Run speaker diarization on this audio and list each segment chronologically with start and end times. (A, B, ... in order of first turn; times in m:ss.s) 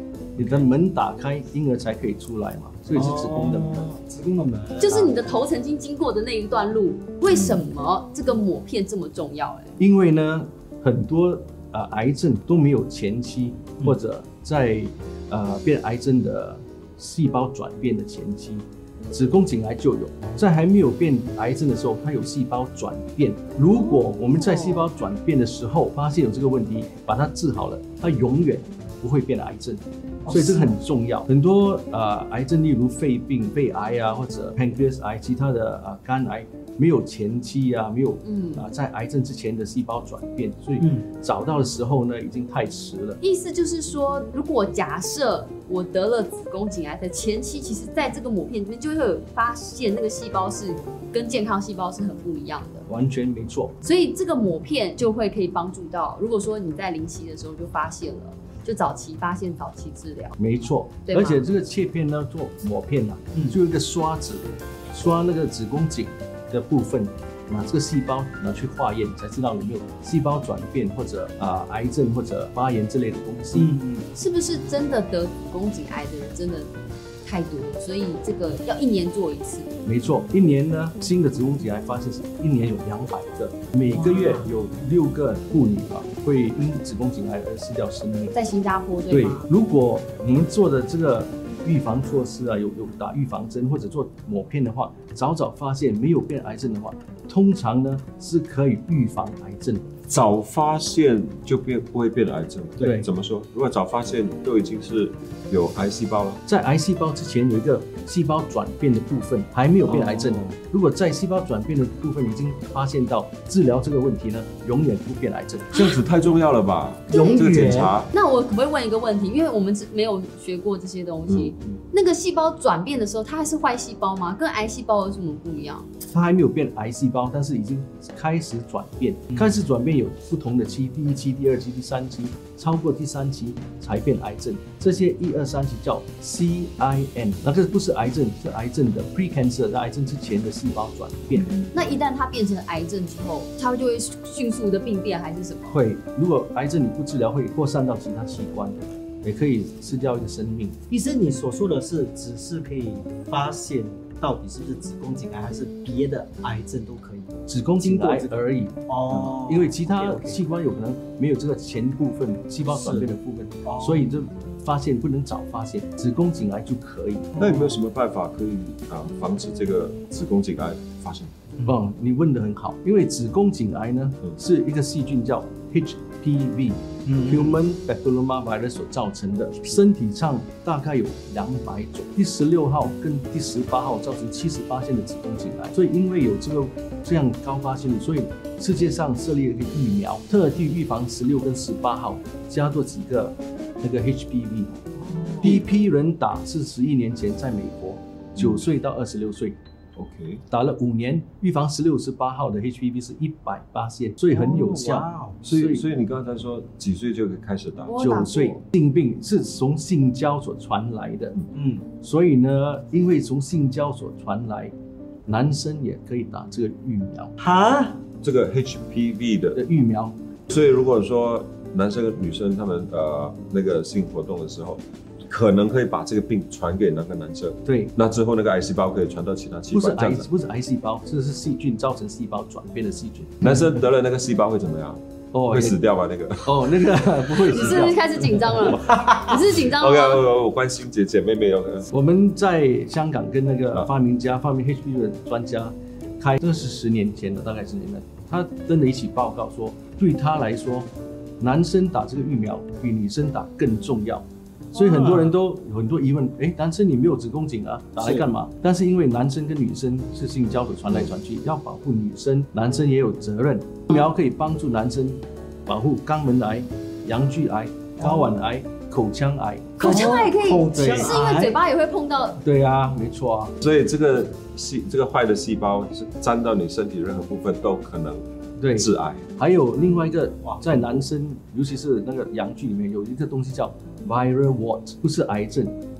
0:00.4-0:03.9 A
0:00.4-0:00.6 B
0:02.9-0:05.2 B
0:04.8-0:09.8 C
0:09.8-0:43.2 A
0:23.7-0:24.8 C
0:30.2-0:30.8 B
0:38.2-0:38.7 C
0:40.8-0:41.0 B
0:43.2-0:52.8 C
0:52.9-0:53.7 A
0:53.8-1:00.4 C
1:00.4-1:13.8 A
1:01.0-1:01.4 C
1:13.5-1:14.1 B
1:14.1-1:16.7 C
1:17.2-1:19.7 C
1:19.8-1:28.4 A
1:23.9-1:24.4 B
1:28.3-1:29.4 C
1:29.1-1:39.9 A
1:40.1-1:46.4 D
1:42.8-1:43.1 A
1:46.4-1:55.8 A
1:49.8-1:50.6 B
1:55.7-1:58.1 D
1:57.1-1:57.5 C
1:57.2-1:57.9 B
1:58.1-2:05.9 C
2:01.3-2:01.5 D
2:06.0-2:21.6 A
2:21.7-2:25.8 C
2:25.7-2:30.8 A
2:30.9-2:40.4 B
2:37.5-2:47.3 A
2:42.7-2:43.1 B
2:43.6-2:44.1 B
2:47.4-2:51.3 D
2:47.4-2:47.7 B
2:51.6-3:14.8 A
2:57.1-2:57.6 B
3:15.0-3:15.6 B
3:15.4-3:19.6 A
3:18.3-3:18.6 D
3:20.0-3:20.4 D
3:20.5-3:25.8 A
3:24.3-3:25.4 B
3:25.4-3:28.0 D
3:27.9-3:28.6 C
3:28.0-3:31.3 A
3:31.5-3:31.8 B
3:32.0-3:34.7 A
3:35.2-3:37.3 A
3:37.4-3:38.0 B
3:38.2-3:39.6 D
3:39.6-3:40.1 A
3:40.5-3:50.3 D
3:47.6-3:47.9 A
3:49.7-3:53.6 A
3:53.4-3:57.9 D
3:55.3-3:55.8 A
3:56.4-3:58.0 A
3:57.5-4:00.2 C
3:58.7-4:01.9 D
4:01.9-4:31.2 A
4:14.7-4:15.3 B
4:18.0-4:18.2 B
4:28.0-4:28.3 B
4:29.8-4:32.4 C
4:29.8-4:31.6 B
4:32.4-4:33.6 A
4:33.6-4:39.2 D
4:38.6-4:45.8 A
4:40.4-4:40.9 B